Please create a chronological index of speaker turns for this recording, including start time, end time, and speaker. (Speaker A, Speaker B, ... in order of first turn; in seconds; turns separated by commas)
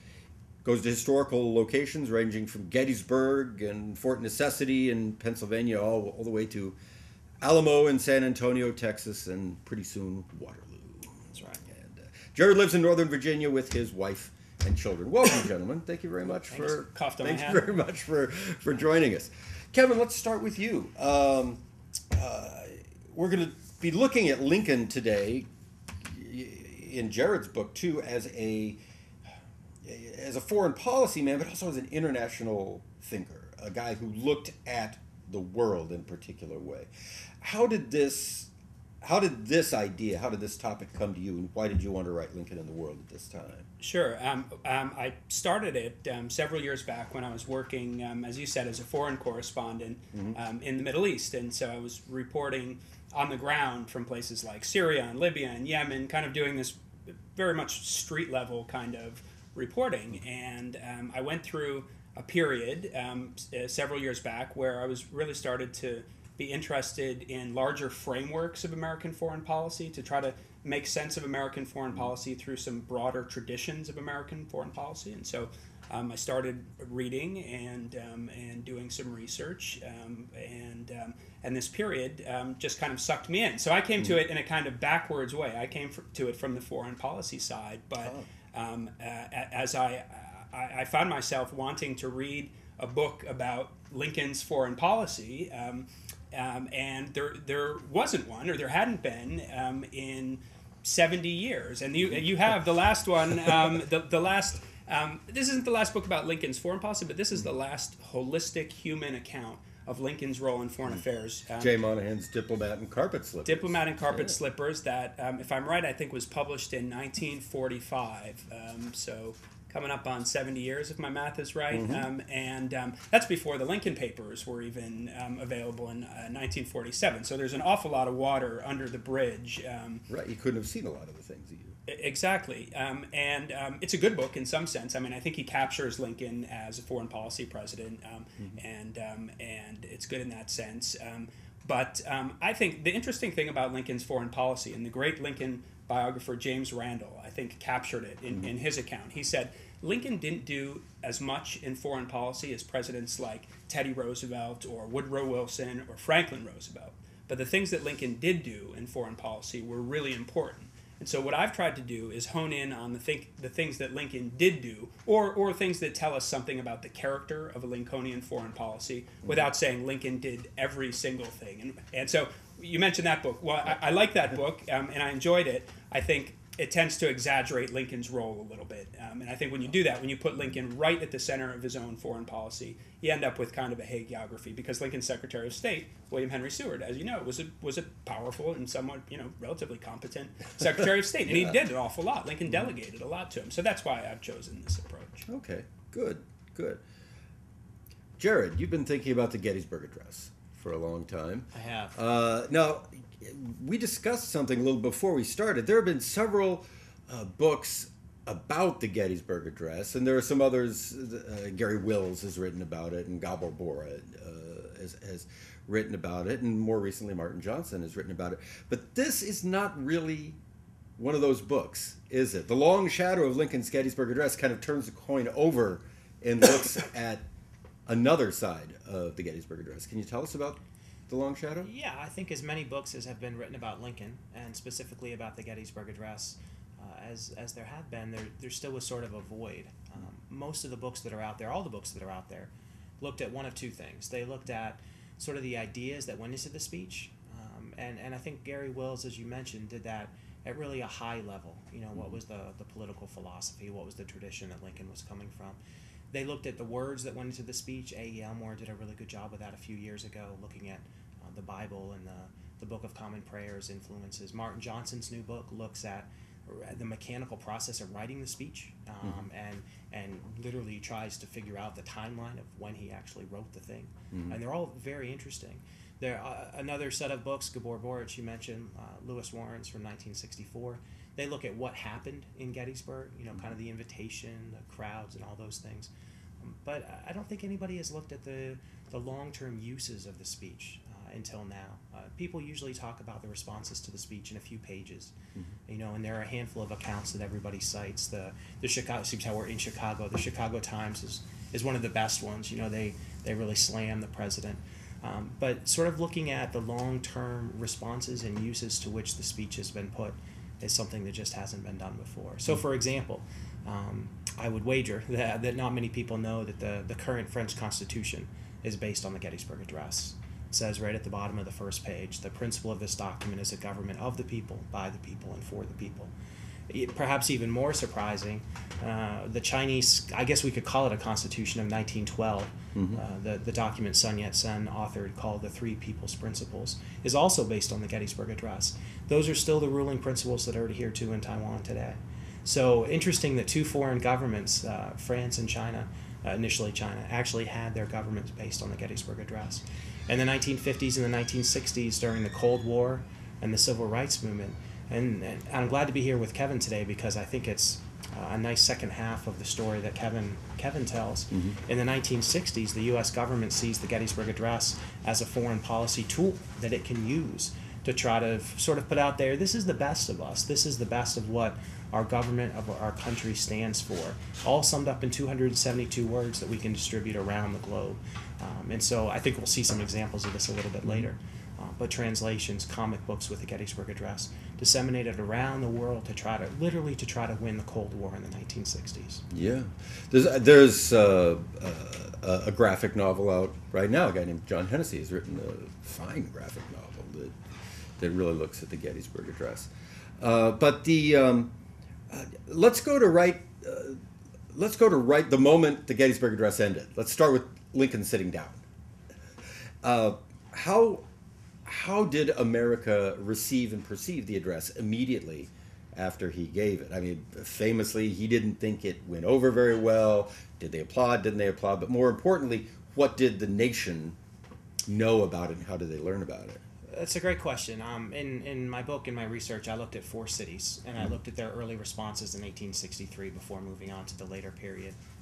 Speaker A: 0.6-6.8, Speaker A: 7.4-25.5, Speaker B: 16.5-17.6, Speaker A: 26.0-28.8, Speaker A: 29.8-36.9, Speaker A: 37.4-38.5, Speaker A: 39.0-43.7, Speaker B: 43.8-56.8, Speaker A: 50.1-50.4, Speaker B: 57.3-111.7, Speaker A: 88.0-88.3, Speaker A: 111.6-114.4, Speaker B: 113.4-130.0, Speaker A: 121.7-122.1, Speaker A: 130.1-131.8, Speaker B: 131.9-195.2, Speaker A: 191.3-191.5, Speaker A: 195.3-196.8, Speaker A: 198.2-220.4, Speaker C: 201.5-202.0, Speaker A: 221.0-227.2, Speaker A: 227.8-231.7, Speaker C: 231.6-255.6, Speaker C: 256.1-295.1, Speaker A: 274.1-274.4, Speaker C: 295.7-326.1, Speaker C: 326.7-389.2, Speaker A: 332.7-333.0, Speaker A: 389.3-397.4, Speaker A: 398.0-401.5, Speaker A: 402.1-404.0, Speaker A: 404.5-408.6, Speaker A: 409.8-411.1, Speaker A: 411.6-424.2, Speaker A: 424.9-426.6, Speaker C: 426.9-435.0